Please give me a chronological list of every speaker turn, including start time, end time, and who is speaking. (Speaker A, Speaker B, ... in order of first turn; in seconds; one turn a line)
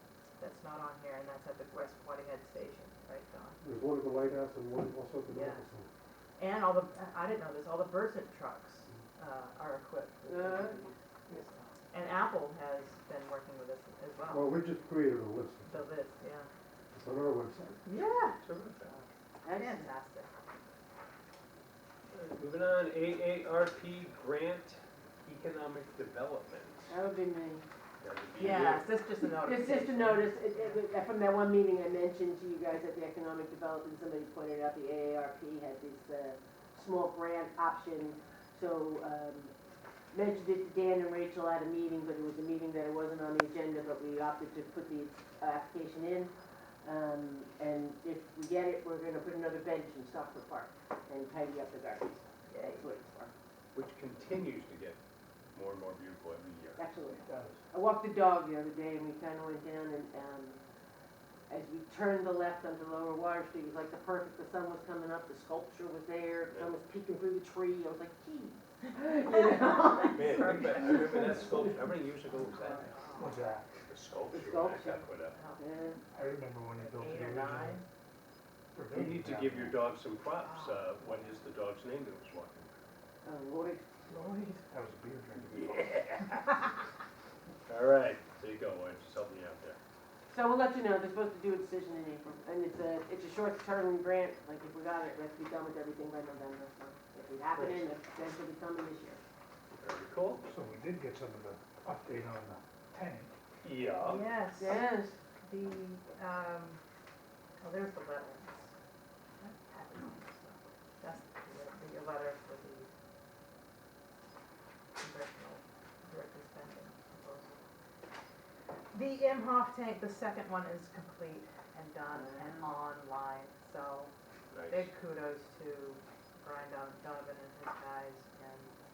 Speaker A: 0.4-3.6
Speaker B: 3.6-5.8
Speaker C: 3.9-4.7
Speaker A: 5.3-5.6
Speaker A: 6.4-14.6
Speaker D: 10.3-10.8
Speaker B: 14.3-15.7
Speaker C: 14.7-15.6
Speaker A: 15.7-16.5
Speaker B: 16.9-17.8
Speaker C: 17.0-17.8
Speaker A: 17.9-18.4
Speaker E: 18.4-19.1
Speaker D: 19.4-19.9
Speaker A: 19.5-20.3
Speaker E: 22.1-27.0
Speaker D: 26.9-27.6
Speaker E: 28.0-28.9
Speaker A: 28.4-30.9
Speaker D: 29.2-39.5
Speaker D: 40.1-53.3
Speaker A: 52.5-52.9
Speaker E: 53.7-55.0
Speaker E: 55.5-56.8
Speaker D: 56.8-60.6
Speaker C: 57.1-57.6
Speaker D: 61.5-71.6
Speaker E: 66.5-66.8
Speaker A: 69.3-71.4
Speaker E: 70.1-72.9
Speaker A: 72.5-73.4
Speaker C: 73.2-73.7
Speaker E: 73.8-75.4
Speaker D: 74.3-76.0
Speaker A: 75.3-75.7
Speaker C: 76.1-77.8
Speaker A: 76.8-77.8
Speaker C: 78.7-79.8
Speaker E: 78.9-82.7
Speaker A: 80.4-81.4
Speaker D: 83.2-84.6
Speaker C: 84.7-85.9
Speaker E: 85.4-86.6
Speaker E: 87.7-89.8
Speaker D: 90.3-99.2
Speaker E: 99.8-100.5
Speaker C: 100.4-103.4
Speaker E: 103.6-104.3
Speaker A: 104.0-104.9
Speaker D: 104.6-105.2
Speaker A: 105.4-106.8
Speaker A: 107.6-108.8
Speaker A: 109.4-112.9
Speaker A: 115.0-117.6
Speaker A: 118.9-124.1
Speaker D: 122.1-122.7
Speaker E: 124.5-124.9
Speaker A: 124.7-128.8